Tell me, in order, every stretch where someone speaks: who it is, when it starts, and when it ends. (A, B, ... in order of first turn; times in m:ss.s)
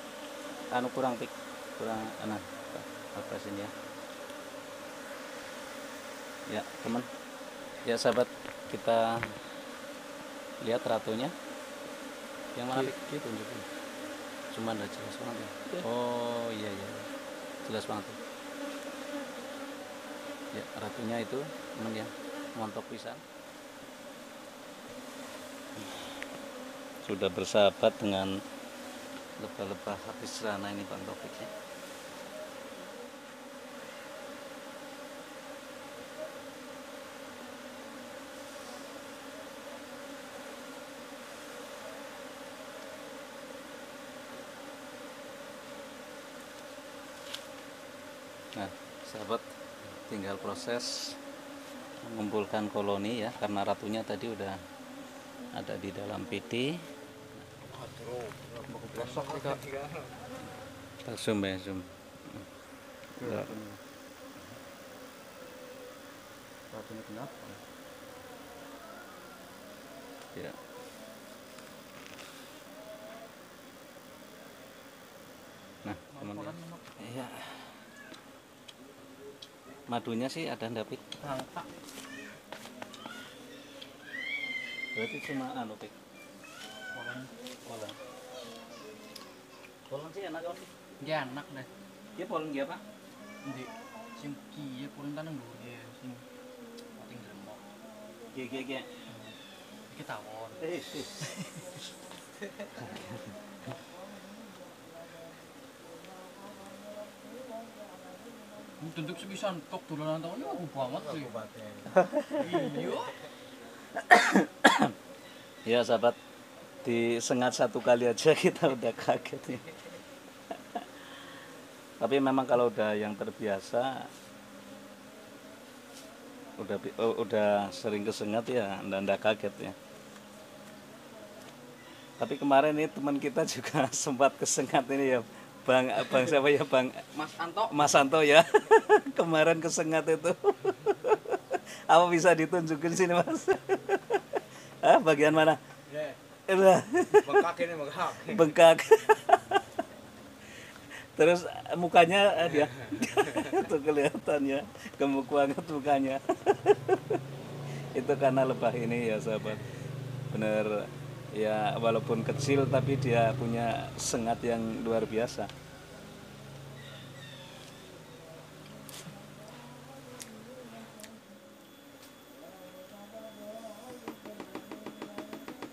0:00.7-0:03.7 A
0:06.5-0:07.1 A
0:07.8-0:09.4 A
0:10.6-0:11.4 A
0:12.6-0:13.7 A
0:12.7-0:13.2 B
0:14.5-0:17.1 A
0:17.6-0:18.2 A
0:20.5-0:23.2 A
0:25.8-0:26.2 A
0:27.0-0:28.4 A
0:29.4-0:31.5 A
0:48.6-0:51.2 A
0:52.0-0:54.6 A
0:55.5-0:56.8 A
0:57.6-1:00.1 C
0:58.7-0:59.6 B
1:01.0-1:02.5 A
1:03.2-1:03.8 B
1:03.2-1:03.5 A
1:06.7-1:07.6 B
1:15.8-1:17.7 A
1:16.1-1:16.9 B
1:19.9-1:21.0 A
1:21.2-1:21.7 B
1:24.9-1:25.9 A
1:26.9-1:27.3 B
1:27.6-1:28.0 A
1:29.9-1:30.7 A
1:31.0-1:31.7 B
1:32.2-1:32.8 A
1:33.4-1:36.2 B
1:37.0-1:37.6 B
1:38.3-1:38.9 A
1:39.1-1:39.4 B
1:39.9-1:40.6 B
1:40.6-1:41.4 A
1:42.8-1:43.2 A
1:48.8-1:51.3 B
1:50.9-1:52.1 C
1:52.1-1:52.7 A
1:52.4-1:53.2 B
1:53.9-1:54.9 A
1:55.6-1:56.2 A
1:56.8-1:59.7 A
2:00.5-2:01.2 A
2:02.0-2:04.1 A
2:06.6-2:09.8 A
2:12.2-2:17.1 A
2:17.1-2:18.0 B
2:17.7-2:25.6 A
2:26.5-2:27.5 A
2:27.0-2:28.6 C
2:28.2-2:29.7 A
2:30.9-2:37.2 A
2:37.9-2:39.7 A
2:40.3-2:45.5 A